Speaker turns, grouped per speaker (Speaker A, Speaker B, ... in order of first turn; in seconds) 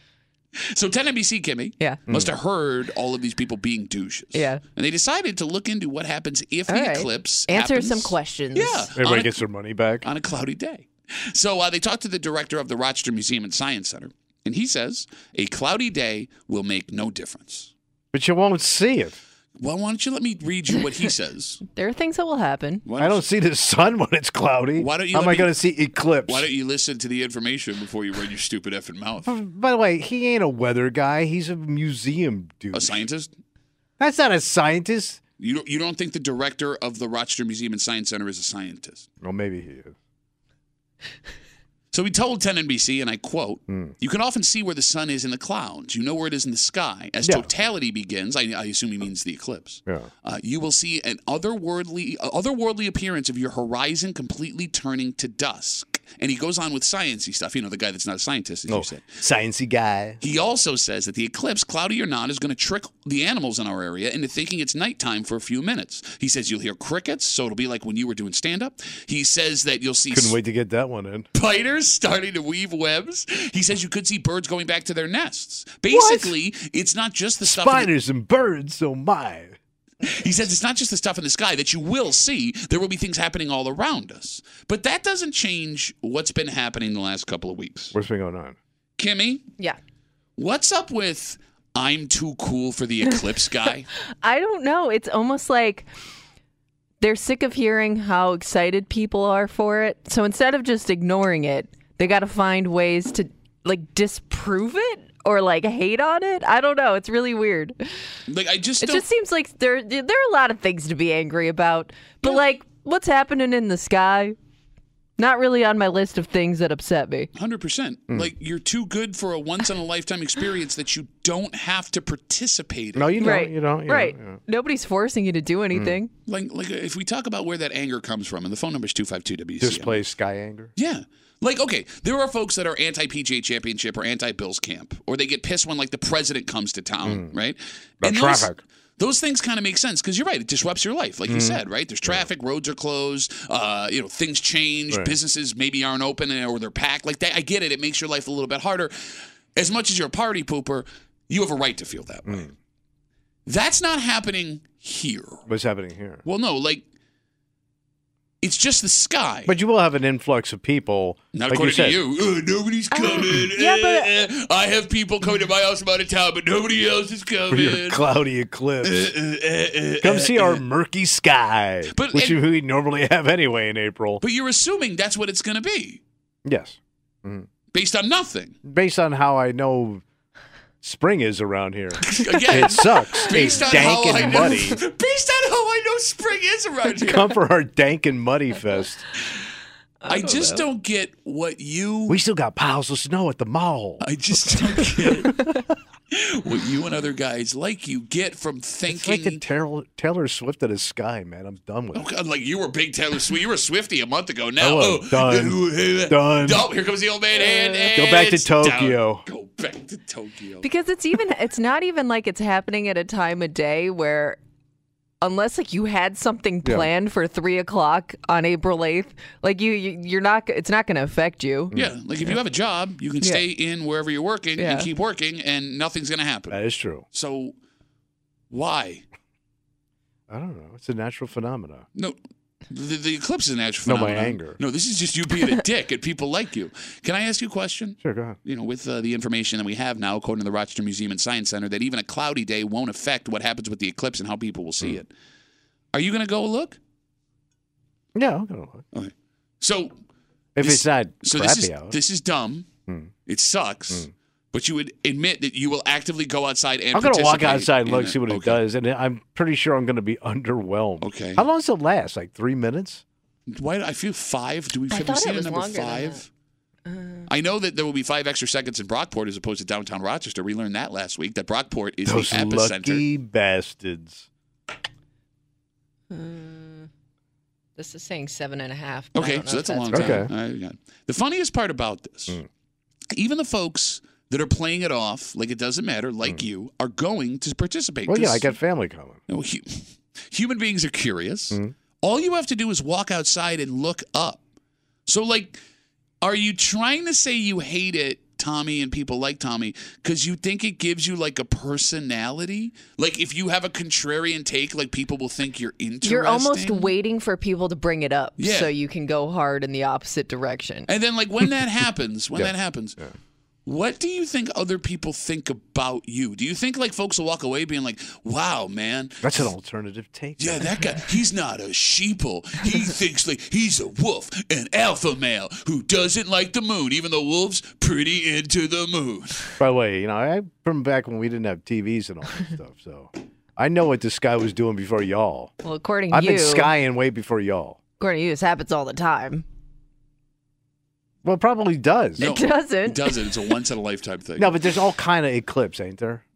Speaker A: 0.6-9.4, 10.0-17.7, 19.6-21.6, 22.8-23.2, 24.8-25.6, 26.2-29.3, 32.7-33.3, 35.4-39.1, 41.9-59.2, 60.2-70.4, 71.3-77.9, 80.0-87.9, 89.0-89.4, 90.4-93.9, 108.3-109.0, 117.3-123.3, 126.3-130.0, 130.7-148.9, 149.6-152.5, 153.4-155.4, 156.2-156.8, 158.4-159.6, 161.3-168.1, 168.8-170.6, 171.9-172.4, 174.2-176.0, 177.7-178.5, 182.0-187.3, 190.1-192.2, 194.0-195.5, 196.1-199.4, 201.9-210.7, 221.7-227.6, 228.5-229.0, 232.7-245.1, 245.9-246.8, 248.9-250.0, 250.6-252.7, 253.2-258.6, 261.0-261.4, 263.5-266.3, 267.3-273.0, 279.1-282.4, 283.1-288.6, 289.3-294.4, 295.1-295.6, 296.2-306.9, 308.4-308.7, 310.9-313.0, 313.6-319.5, 320.4-329.6, 342.2-344.6
Speaker B: 4.3-4.6, 6.7-8.9, 21.7-22.8, 94.2-95.9, 97.0-107.8, 108.8-114.3, 115.2-117.3, 123.2-126.1, 162.9-164.1, 190.0-190.6, 210.6-214.4, 215.2-221.7, 224.6-224.9, 264.9-266.2, 266.9-267.3, 276.1-276.9, 277.8-280.3, 306.0-310.9, 335.6-336.7, 338.0-339.4, 342.2-343.3
Speaker C: 8.9-10.0, 18.1-19.2, 23.0-26.5, 29.2-33.0, 34.0-35.2, 39.2-39.9, 47.2-47.5, 58.7-60.2, 70.1-71.3, 75.9-76.3, 77.5-79.5, 87.9-88.5, 122.9-124.4, 125.7-126.0, 129.6-130.7, 137.0-137.3, 138.0-138.6, 141.3-141.6, 144.9-145.2, 152.2-152.5, 155.4-156.2, 159.4-162.0, 167.5-169.1, 170.0-174.2, 176.4-177.5, 178.6-180.0, 180.8-184.8, 187.1-189.0, 192.1-194.0, 198.9-202.1, 204.6-206.7, 207.9-209.2, 216.6-216.9, 221.7-222.0, 226.5-227.0, 230.3-231.8, 233.8-234.6, 238.0-238.4, 248.1-248.8, 250.6-252.0, 256.9-263.0, 272.0-274.2, 279.9-280.3, 288.1-289.2, 312.4-313.1, 319.2-320.7, 329.6-335.5, 336.1-337.8, 341.2-342.3, 344.4-346.2